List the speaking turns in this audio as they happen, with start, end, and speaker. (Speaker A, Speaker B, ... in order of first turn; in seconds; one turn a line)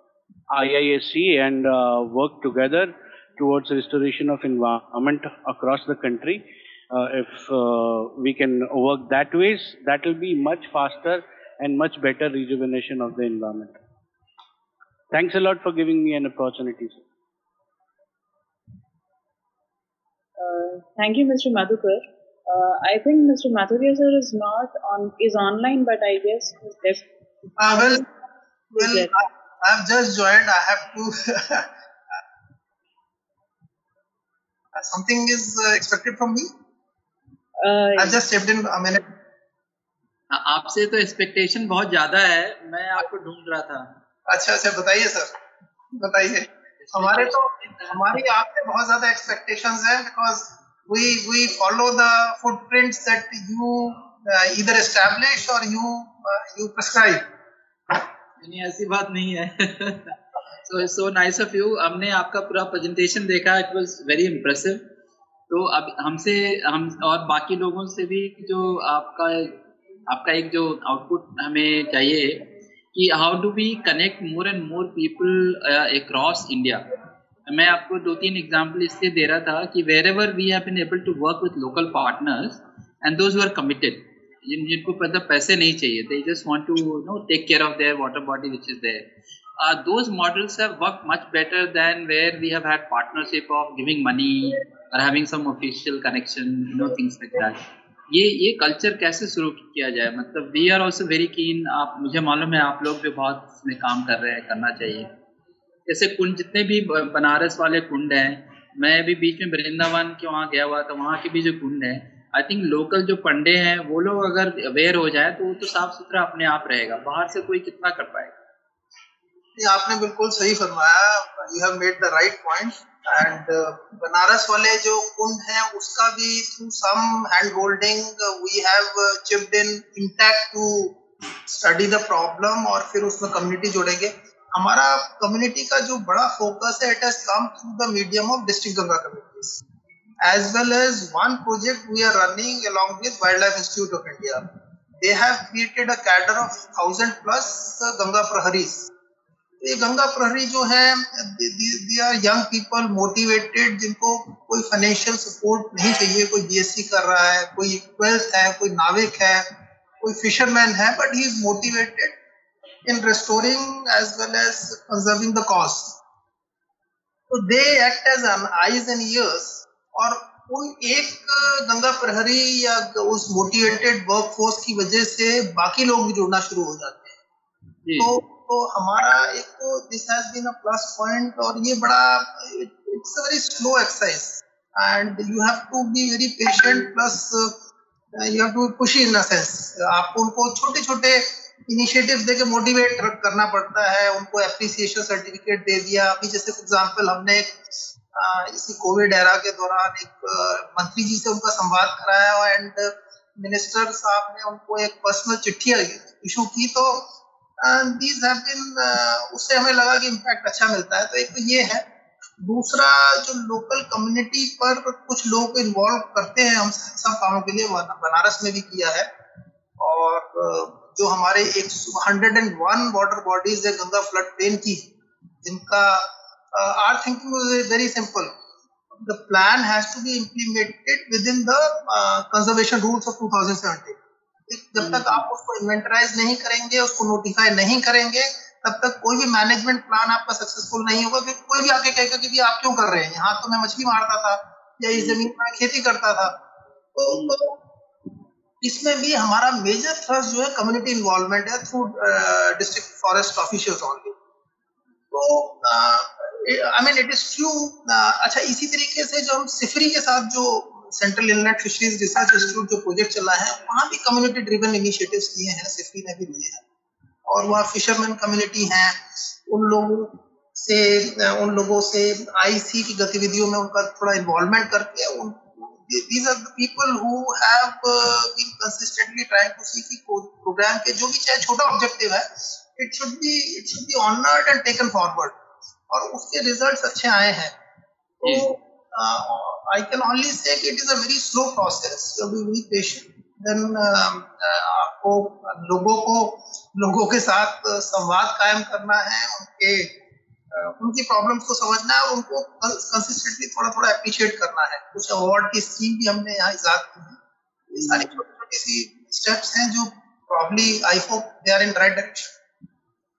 Speaker A: 0.5-13.8
Speaker A: 15.1-17.0
Speaker B: 20.4-27.0
Speaker C: 27.6-28.1
Speaker B: 27.7-28.1
Speaker B: 28.7-29.1
Speaker C: 28.7-31.7
Speaker C: 34.8-36.5
Speaker B: 37.6-38.2
Speaker C: 38.0-39.1
Speaker D: 40.3-43.9
Speaker C: 44.3-45.4
Speaker C: 45.9-57.2
Speaker D: 46.9-48.0
Speaker D: 58.4-60.1
Speaker D: 60.7-64.8
Speaker D: 65.5-69.5
Speaker D: 70.1-76.9
Speaker D: 77.5-105.1
Speaker D: 105.9-118.3
Speaker C: 119.6-139.6
Speaker C: 140.2-144.5
Speaker C: 145.0-148.9
Speaker C: 149.6-159.5
Speaker C: 160.0-162.2
Speaker C: 162.8-166.0
Speaker C: 167.3-177.2
Speaker D: 177.8-178.1
Speaker C: 178.0-187.6
Speaker C: 188.1-197.6
Speaker C: 198.1-207.1
Speaker C: 207.6-211.8
Speaker C: 212.4-219.1
Speaker C: 219.8-224.8
Speaker C: 225.4-228.3
Speaker C: 228.9-234.0
Speaker C: 234.5-246.4
Speaker D: 234.8-235.2
Speaker D: 244.9-245.3
Speaker C: 246.9-247.6
Speaker D: 247.1-247.3
Speaker C: 248.6-254.1
Speaker C: 255.1-266.6
Speaker C: 267.3-285.4
Speaker C: 285.9-287.5
Speaker C: 288.2-299.9
Speaker C: 300.5-307.2
Speaker C: 307.7-312.3
Speaker D: 307.8-308.1